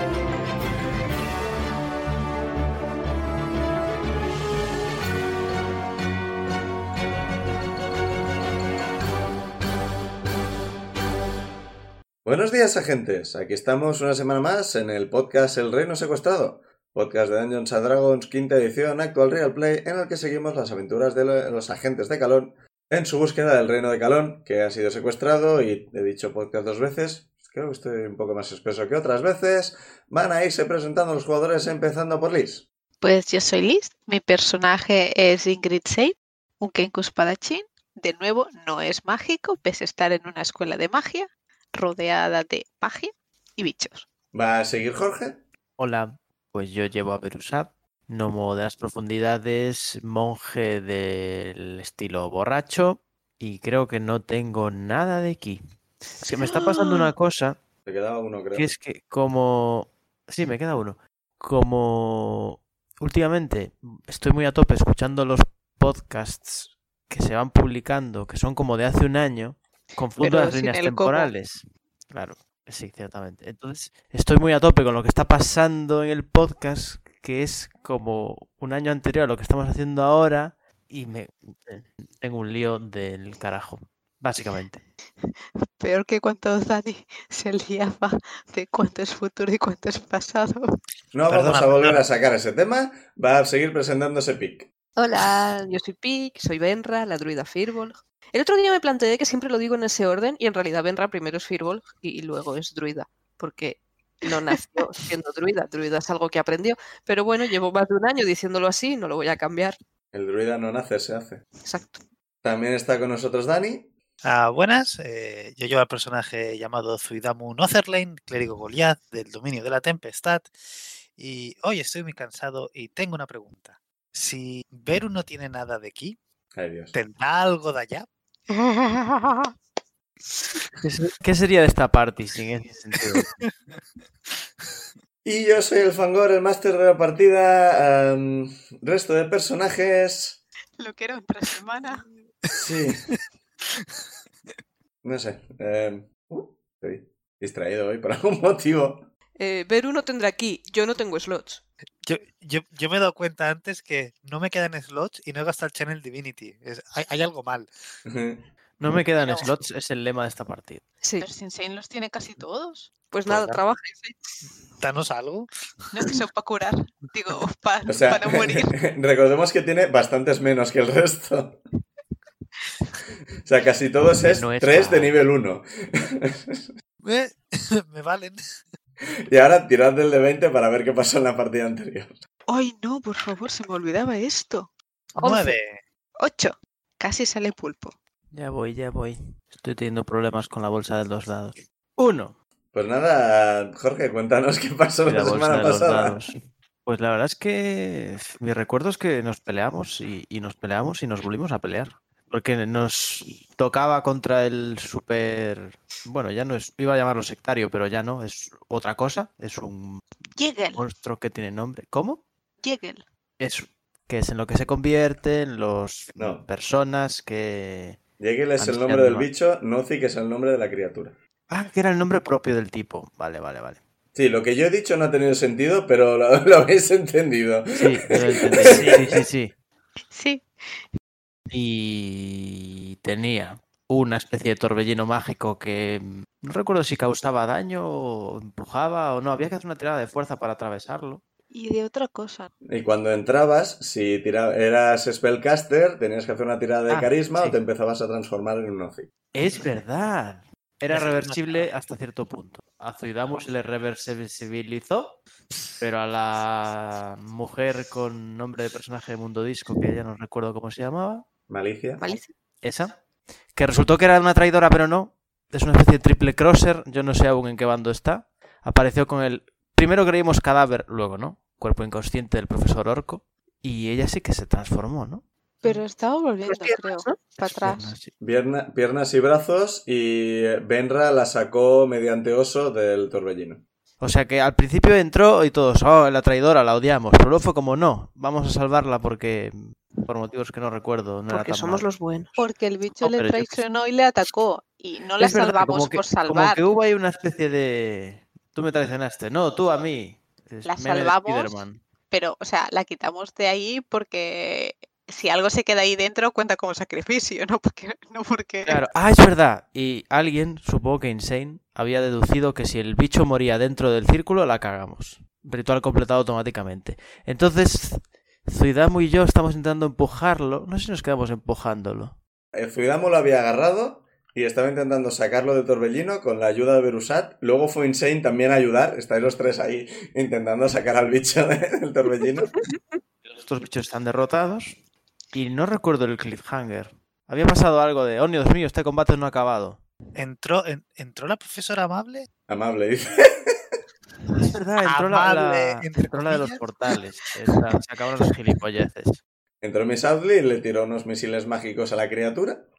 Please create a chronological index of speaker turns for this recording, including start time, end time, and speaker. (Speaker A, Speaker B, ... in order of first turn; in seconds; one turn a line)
Speaker A: 12.2-32.7
Speaker B: 33.0-44.0
Speaker A: 44.3-45.4
Speaker C: 45.8-55.6
Speaker C: 56.2-57.6
Speaker A: 57.9-58.7
Speaker C: 58.5-84.8
Speaker B: 70.2-71.3
Speaker B: 85.8-90.7
Speaker A: 91.1-94.7
Speaker D: 91.3-92.1
Speaker E: 95.0-109.8
Speaker A: 110.1-111.4
Speaker E: 111.6-112.0
Speaker A: 112.4-113.9
Speaker D: 114.2-120.5
Speaker D: 121.2-126.2
Speaker A: 126.5-126.9
Speaker D: 126.9-128.1
Speaker B: 128.7-129.5
Speaker C: 130.8-133.3
Speaker D: 133.1-133.5
Speaker A: 135.2-140.4
Speaker B: 140.8-142.1
Speaker A: 142.6-143.0
Speaker A: 145.0-149.1
Speaker E: 149.4-151.6
Speaker D: 152.0-157.7
Speaker A: 158.1-158.4
Speaker C: 158.8-160.8
Speaker B: 159.2-159.5
Speaker B: 161.2-162.9
Speaker E: 163.1-164.2
Speaker D: 163.3-163.6
Speaker D: 164.8-165.5
Speaker B: 165.9-168.7
Speaker A: 167.9-171.6
Speaker A: 173.4-176.7
Speaker C: 174.3-175.3
Speaker D: 177.0-178.4
Speaker A: 179.3-182.2
Speaker B: 182.5-184.7
Speaker D: 185.2-185.8
Speaker B: 186.2-187.9
Speaker C: 188.3-192.3
Speaker A: 192.7-196.3
Speaker C: 195.1-210.0
Speaker B: 210.4-210.8
Speaker C: 210.8-212.2
Speaker B: 212.6-213.0
Speaker C: 213.4-218.0
Speaker A: 216.2-216.4
Speaker A: 218.2-221.2
Speaker C: 218.6-219.3
Speaker C: 221.5-223.8
Speaker A: 224.2-229.2
Speaker C: 227.8-229.5
Speaker D: 228.6-229.1
Speaker B: 230.1-230.9
Speaker C: 231.5-241.2
Speaker B: 241.5-242.5
Speaker A: 242.7-249.1
Speaker C: 246.9-247.6
Speaker C: 249.3-255.2
Speaker D: 250.9-251.7
Speaker C: 255.8-261.2
Speaker A: 261.5-262.0
Speaker E: 262.0-262.3
Speaker C: 262.6-262.9
Speaker C: 263.5-275.2
Speaker B: 275.6-277.9
Speaker E: 276.5-277.2
Speaker C: 277.4-278.1
Speaker A: 278.2-283.6
Speaker C: 284.0-291.9
Speaker E: 291.3-292.4
Speaker B: 292.4-296.6
Speaker C: 293.0-293.6
Speaker C: 295.2-301.8
Speaker B: 300.7-301.6
Speaker B: 302.1-308.8
Speaker C: 308.7-322.2
Speaker A: 322.5-332.5
Speaker C: 333.3-334.8
Speaker C: 335.3-339.8
Speaker D: 340.2-342.3
Speaker A: 342.5-343.6
Speaker C: 344.4-349.2
Speaker D: 344.9-346.6
Speaker A: 349.6-352.7